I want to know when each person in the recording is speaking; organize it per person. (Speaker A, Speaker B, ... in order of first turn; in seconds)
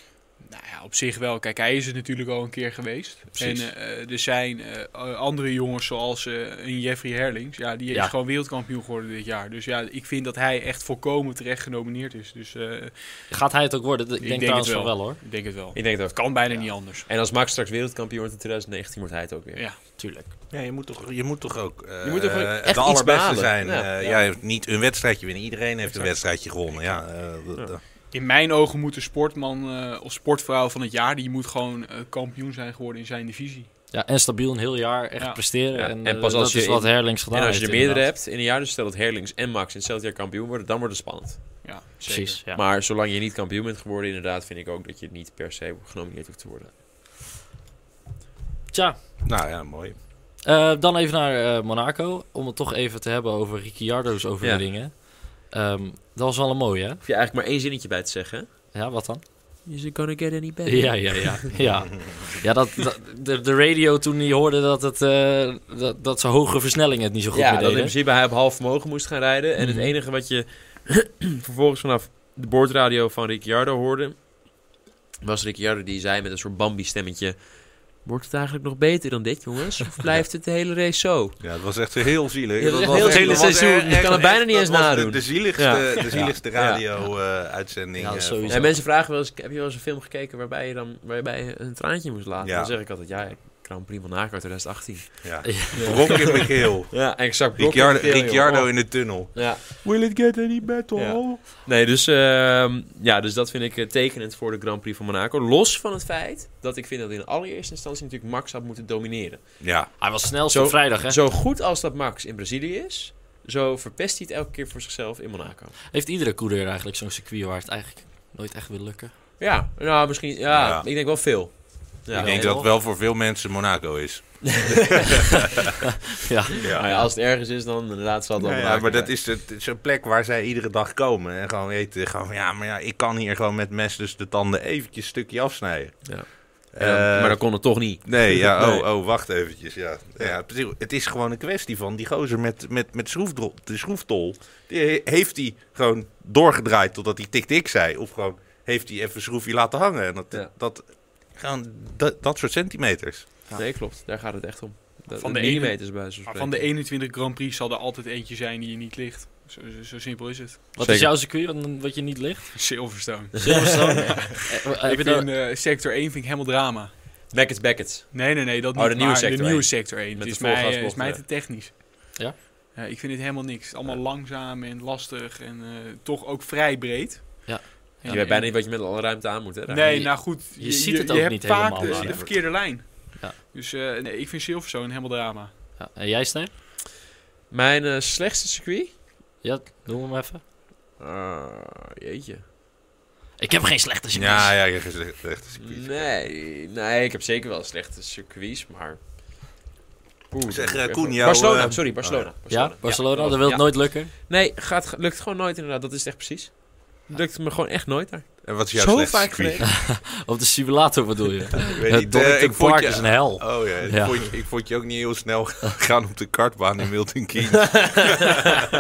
Speaker A: 0.4-13.3, 14.2-17.1, 25.9-27.0, 28.1-33.7, 41.6-42.4, 155.2-160.6, 162.6-166.9, 168.1-178.5, 179.7-185.5
Speaker B: 13.3-15.2, 20.0-20.3, 33.9-38.1, 42.1-42.6, 48.7-49.0, 50.4-57.0, 58.7-59.2, 60.7-68.0, 69.6-69.9, 83.0-83.5, 86.1-86.4, 88.0-88.8, 95.5-96.1, 110.0-111.2, 115.9-119.1, 122.1-122.7, 126.2-127.1, 160.8-165.3, 177.5-178.2, 179.9-183.4, 185.8-186.5, 189.4-190.4, 193.4-194.6, 202.5-204.1, 209.8-214.3
Speaker C: 15.7-19.6, 22.0-24.1, 35.7-41.6, 42.5-46.8, 57.0-58.5, 59.6-61.5, 67.3-74.6, 75.2-81.4, 82.6-86.8, 88.5-99.8, 101.0-110.0, 110.5-115.8, 119.4-122.5, 126.8-129.1, 136.1-138.9, 153.6-156.7, 160.8-161.1, 163.4-163.9, 167.3-171.2, 178.1-180.1, 187.5-189.0, 191.0-192.4, 195.6-199.0, 200.3-209.7, 217.7-218.2
Speaker D: 20.5-27.8, 49.2-50.0, 81.4-88.8, 92.4-92.8, 95.2-101.4, 109.6-109.9, 120.5-120.9, 122.1-125.4, 126.6-126.9, 128.4-153.3, 181.8-182.3, 194.1-196.1, 200.5-202.3, 208.4-209.8, 211.7-218.4